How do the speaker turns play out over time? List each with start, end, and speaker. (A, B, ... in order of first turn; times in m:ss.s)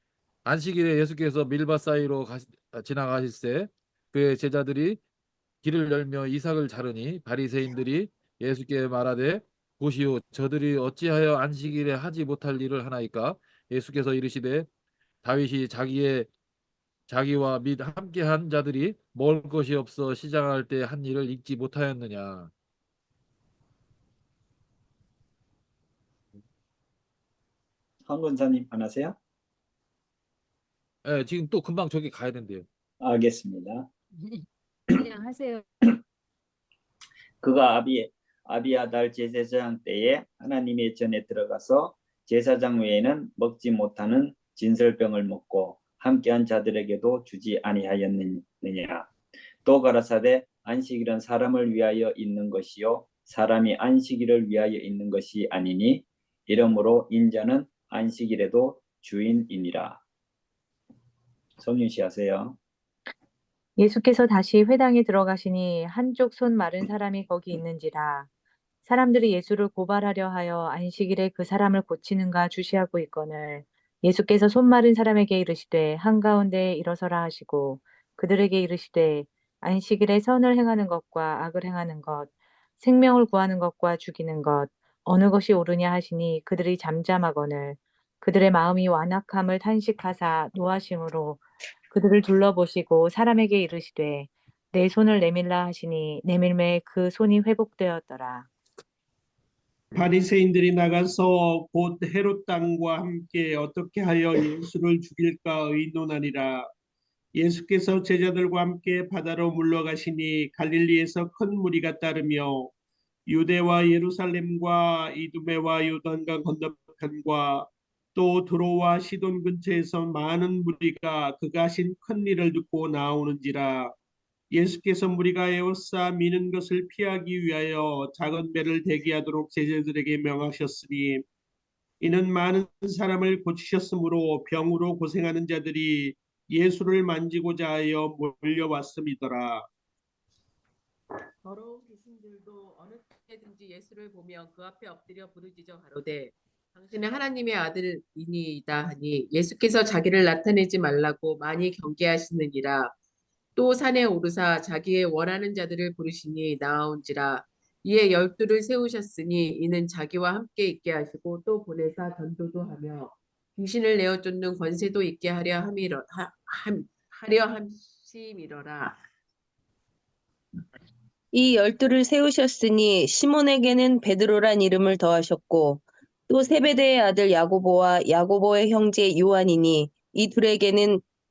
0:00.4-0:05.0 A
0:05.6-0:14.7 A
0:15.2-0:16.3 A
0:17.1-0:22.5 A
0:28.1-0:29.2 B
0:31.0-0:32.6 A
0:33.0-0:33.9 B
0:37.4-0:49.1 B
0:49.6-1:00.0 B
1:01.6-1:02.6 B
1:03.8-1:08.3 C
1:08.8-1:38.5 C
1:39.9-1:46.7 D
1:47.4-1:52.7 D
1:53.3-2:03.9 D
2:04.5-2:11.2 D
2:12.0-2:19.7 D
2:21.4-2:32.9 E
2:33.6-2:49.0 E
2:51.3-3:01.0 F